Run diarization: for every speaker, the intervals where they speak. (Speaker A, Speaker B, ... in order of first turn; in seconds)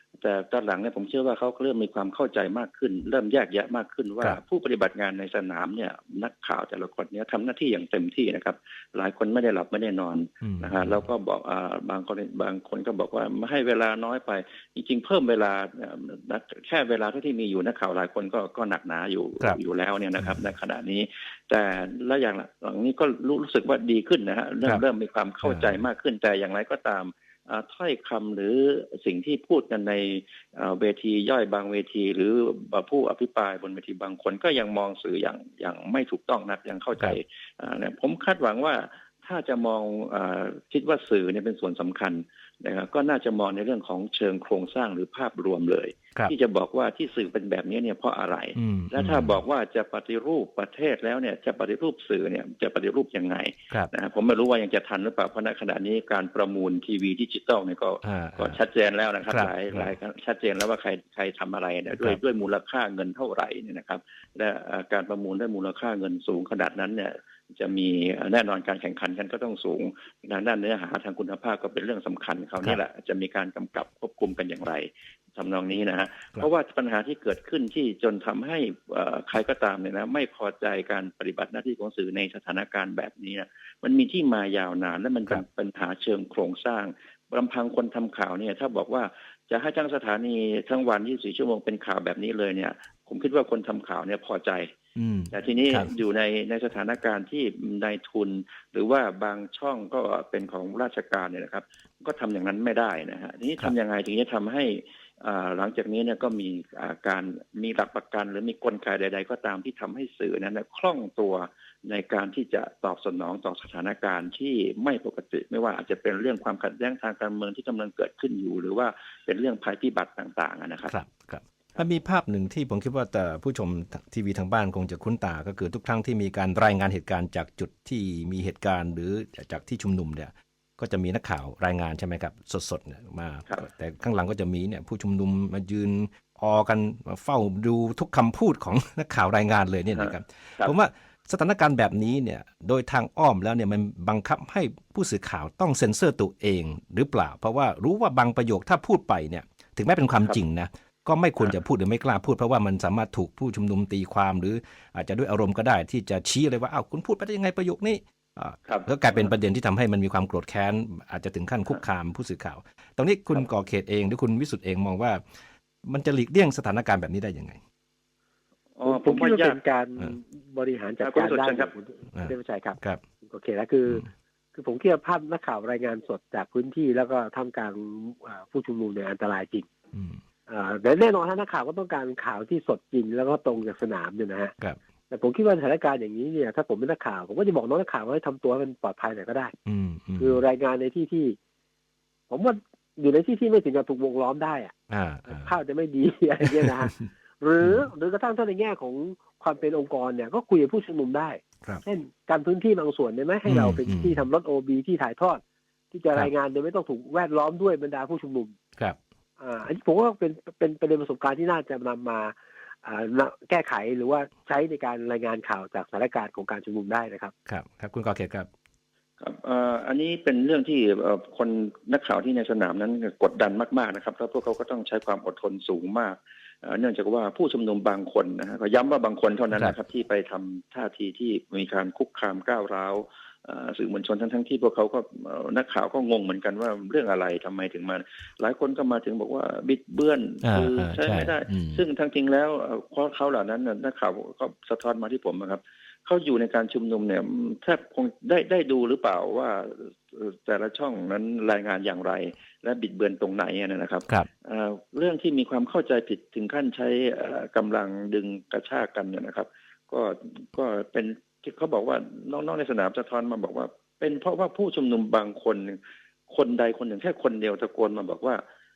Speaker A: 0.2-94.7, 95.3-120.9, 168.8-169.6, 171.0-171.7, 219.2-268.4
Speaker B: 10.4-11.1, 25.4-25.9, 48.6-49.4, 58.0-58.6, 59.3-59.9, 62.0-62.2, 95.0-95.9, 120.9-165.2, 165.8-167.6, 172.2-173.0, 179.9-180.2, 189.7-190.4, 194.9-195.6, 196.4-196.7, 197.6-197.9, 203.5-204.3, 217.5-218.5, 240.4-241.8
Speaker C: 168.8-179.7, 180.5-184.5, 185.1-189.5, 190.2-191.4, 192.3-194.7, 195.3-205.4, 205.9-208.6, 209.4-217.3